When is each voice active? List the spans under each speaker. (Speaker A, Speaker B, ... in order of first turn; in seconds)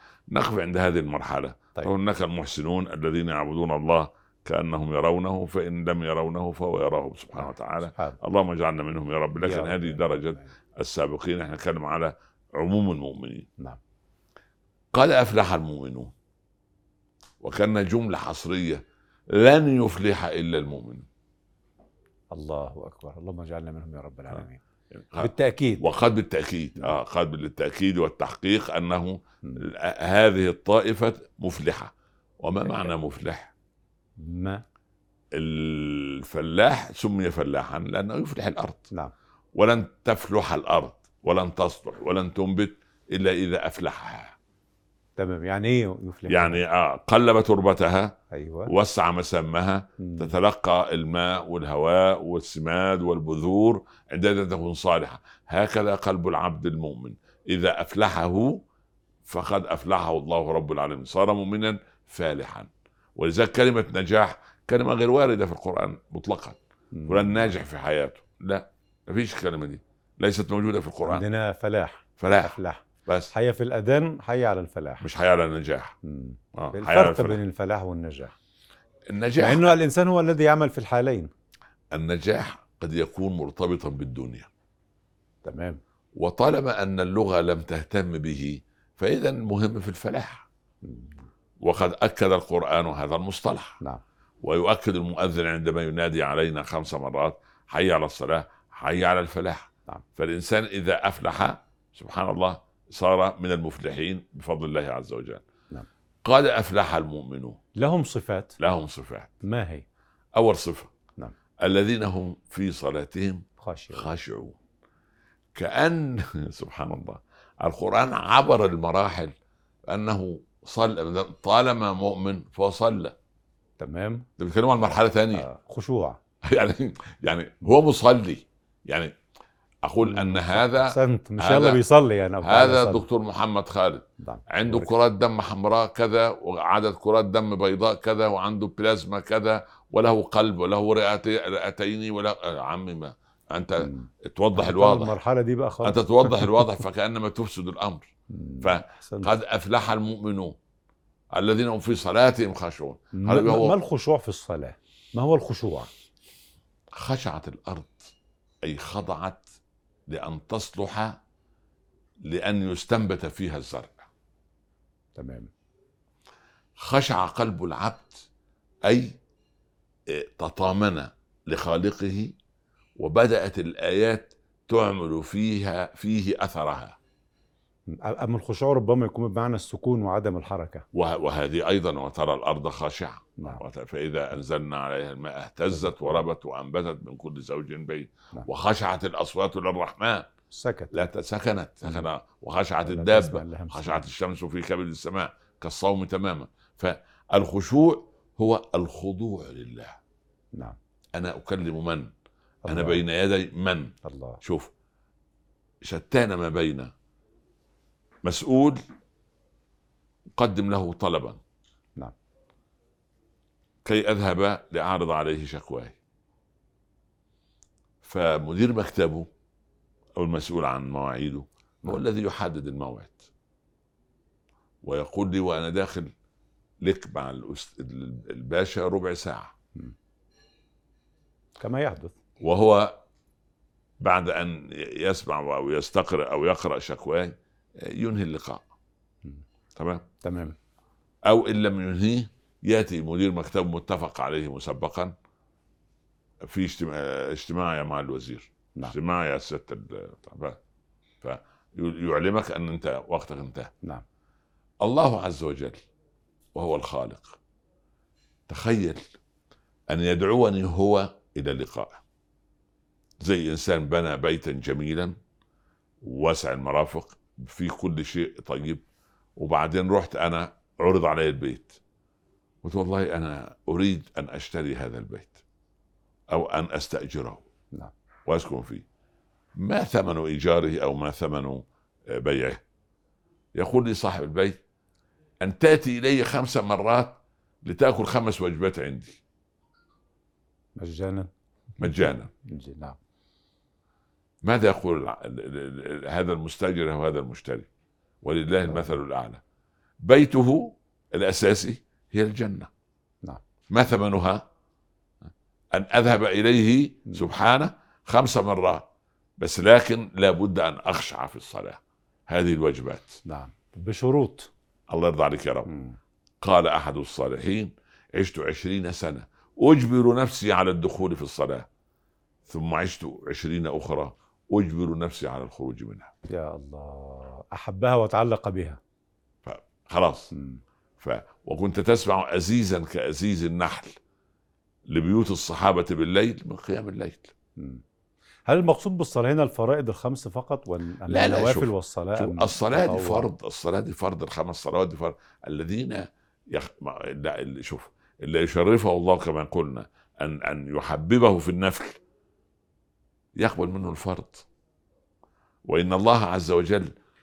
Speaker A: 0.3-13.5, 14.9-16.1, 17.4-21.1, 24.9-33.5, 35.3-38.9, 39.5-44.4, 46.3-58.6, 59.3-71.2, 72.2-73.3, 75.0-76.0, 76.5-77.4, 79.1-79.8, 81.9-84.5, 86.2-90.5, 91.6-93.8, 94.4-105.4, 106.2-107.6, 108.6-109.4, 110.3-110.9, 111.6-114.6, 115.5-119.3, 119.9-123.2, 124.4-125.5, 126.4-129.1, 129.8-131.8, 132.4-145.2, 145.8-148.1, 148.6-150.6, 151.3-153.8, 156.9-159.5, 160.1-161.2, 162.2-164.1, 166.8-168.3, 168.8-169.2, 170.1-172.3, 173.0-177.0, 180.9-190.3, 190.9-200.0, 201.2-202.1, 202.7-204.7, 205.8-206.9, 208.2-208.8, 210.4-211.4, 213.8-216.0, 218.0-219.3, 220.2-223.3, 224.8-226.1, 226.8-229.5, 232.4-233.0, 234.0-238.6, 239.8-240.1, 241.3-245.1, 246.4-250.6, 251.2-253.7, 254.8-255.8, 256.5-257.4, 258.5-259.0, 259.9-262.0, 263.2-265.2, 266.0-268.8, 269.4-271.8, 272.6-275.4, 276.3-277.4, 278.3-278.9, 279.5-282.6, 283.6-284.6, 285.4-289.2, 291.8-292.3, 294.4-297.7, 298.2-299.4, 300.0-302.7, 303.7-304.5, 305.7-308.9, 309.4-313.2, 314.9-315.7, 316.4-321.7, 322.5-326.1, 329.4-330.3, 331.0-334.0, 334.9-337.3, 341.1-352.0, 353.4-354.5, 355.6-356.9
Speaker B: 7.4-8.2, 9.4-10.4, 22.3-24.6, 25.2-25.9, 34.2-34.6, 45.2-46.6, 48.3-48.7, 50.0-50.3, 66.9-67.4, 71.0-75.1, 76.0-78.3, 79.4-81.3, 85.4-85.8, 90.8-91.2, 107.8-108.6, 109.4-109.8, 113.6-114.1, 123.8-124.3, 125.3-126.2, 130.1-133.1, 134.2-134.9, 143.8-146.7, 148.3-149.3, 153.1-155.9, 165.2-165.5, 177.9-180.8, 185.7-186.2, 190.5-190.9, 192.8-194.1, 202.7-203.0, 204.0-204.4, 231.6-232.2, 240.2-240.6, 290.8-291.3, 292.4-293.0, 313.3-314.5, 315.7-316.0, 326.3-328.8, 330.3-330.6, 337.6-337.8, 338.5-343.3